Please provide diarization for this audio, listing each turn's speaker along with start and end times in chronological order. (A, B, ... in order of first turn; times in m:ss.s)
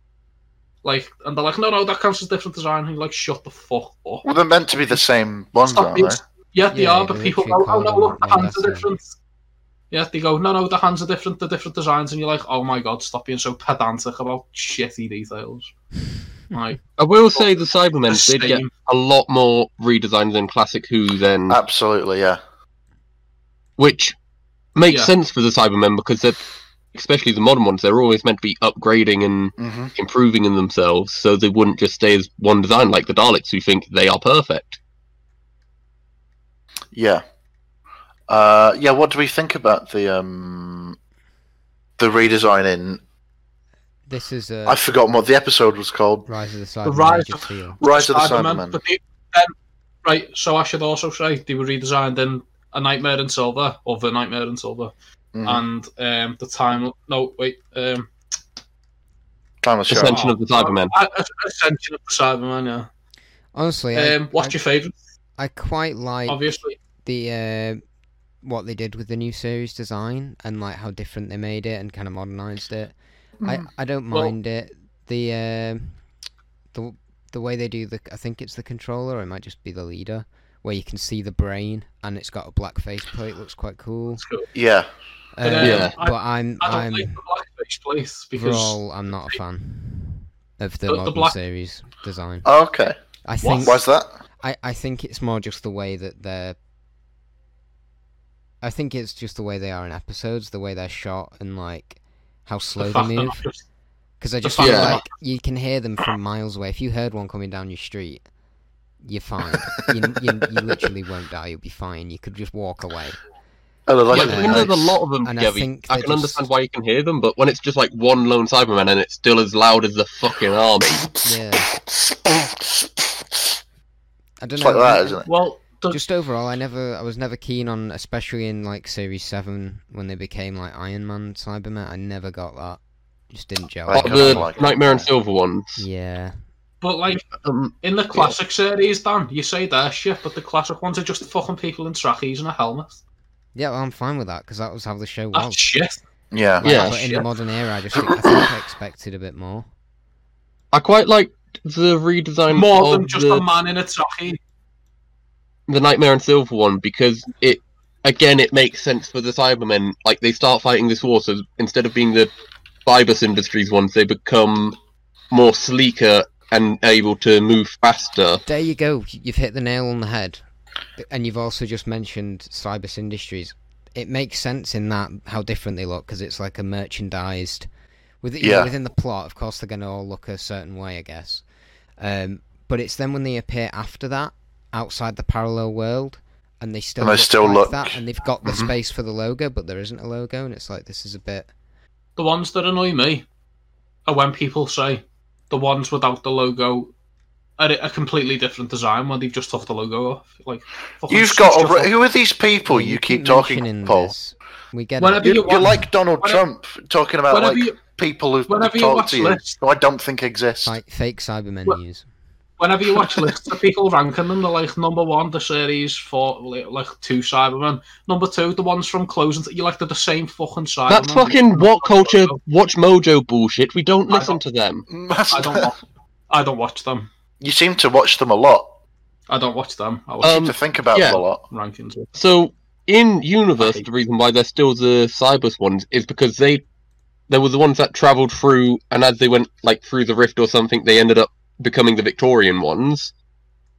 0:00.8-0:04.2 A
0:04.2-0:06.2 B
0:05.6-0:09.1 A
0:06.7-0:08.9 C
0:09.9-0:15.7 A
0:16.5-0:16.8 A
0:17.0-0:21.6 D
0:18.1-0:18.7 A
0:21.5-0:22.4 B
0:23.8-0:24.2 D
0:24.7-0:26.4 D
0:26.9-0:34.8 D
0:29.6-0:29.9 B
0:36.9-0:37.2 B
0:38.3-0:41.0 B
0:42.0-0:43.0 B
0:44.1-0:44.8 C
0:44.6-0:46.3 B
0:46.3-0:47.8 C
0:46.8-0:49.5 A
0:47.8-0:48.8 B
0:50.0-0:54.9 A
0:55.3-0:55.6 B
0:55.4-0:58.1 A
0:59.6-1:00.2 B
0:59.9-1:00.9 D
1:00.0-1:02.9 A
1:03.5-1:04.6 C
1:03.9-1:04.9 A
1:05.4-1:06.4 C
1:06.3-1:06.8 A
1:07.0-1:07.8 C
1:08.4-1:16.0 C
1:13.4-1:13.7 B
1:16.7-1:24.2 C
1:24.2-1:24.5 A
1:24.5-1:24.9 B
1:25.4-1:27.2 C
1:25.4-1:28.8 A
1:25.6-1:25.9 D
1:28.4-1:32.5 C
1:30.9-1:31.4 A
1:32.4-1:32.9 B
1:33.2-1:33.8 C
1:33.4-1:33.7 A
1:33.6-1:34.1 B
1:34.4-1:36.6 C
1:38.6-1:43.4 C
1:42.8-1:43.6 A
1:44.2-1:48.2 C
1:44.4-1:45.0 A
1:44.6-1:45.0 D
1:49.0-1:53.2 C
1:53.9-1:55.0 B
1:54.1-2:01.1 D
1:54.2-1:56.5 C
2:01.2-2:01.7 C
2:01.9-2:02.9 B
2:04.4-2:05.2 C
2:04.6-2:05.3 B
2:05.2-2:06.0 A
2:05.9-2:14.6 C
2:13.9-2:15.1 B
2:13.9-2:15.8 D
2:15.8-2:16.4 C
2:16.8-2:17.3 A
2:17.4-2:18.4 D
2:17.8-2:23.0 A
2:23.5-2:25.6 C
2:25.3-2:26.0 A
2:26.3-2:26.7 B
2:26.6-2:29.7 C
2:26.6-2:27.2 D
2:26.7-2:27.2 A
2:30.7-2:33.4 D
2:32.5-2:34.4 A
2:35.7-2:42.3 D
2:42.8-2:44.8 D
2:45.3-2:48.4 D
2:48.4-2:50.4 C
2:51.0-2:57.7 C
2:58.2-3:01.4 C
2:58.4-2:58.7 B
3:02.0-3:11.5 C
3:07.0-3:08.7 B
3:12.2-3:13.2 A
3:14.0-3:16.9 A
3:17.6-3:21.9 A
3:21.1-3:24.1 B
3:22.7-3:25.4 C
3:25.0-3:26.4 A
3:25.2-3:30.8 B
3:27.3-3:27.8 A
3:28.5-3:29.6 A
3:30.6-3:32.0 C
3:32.6-3:42.4 A
3:40.9-3:44.8 D
3:44.1-3:44.4 A
3:44.9-3:45.7 B
3:45.3-3:47.1 A
3:47.4-3:48.7 B
3:49.3-3:50.5 A
3:50.2-3:51.2 D
3:50.2-3:51.4 B
3:51.4-3:52.1 A
3:52.1-3:56.6 D
3:53.6-3:53.8 A
3:57.3-4:03.1 D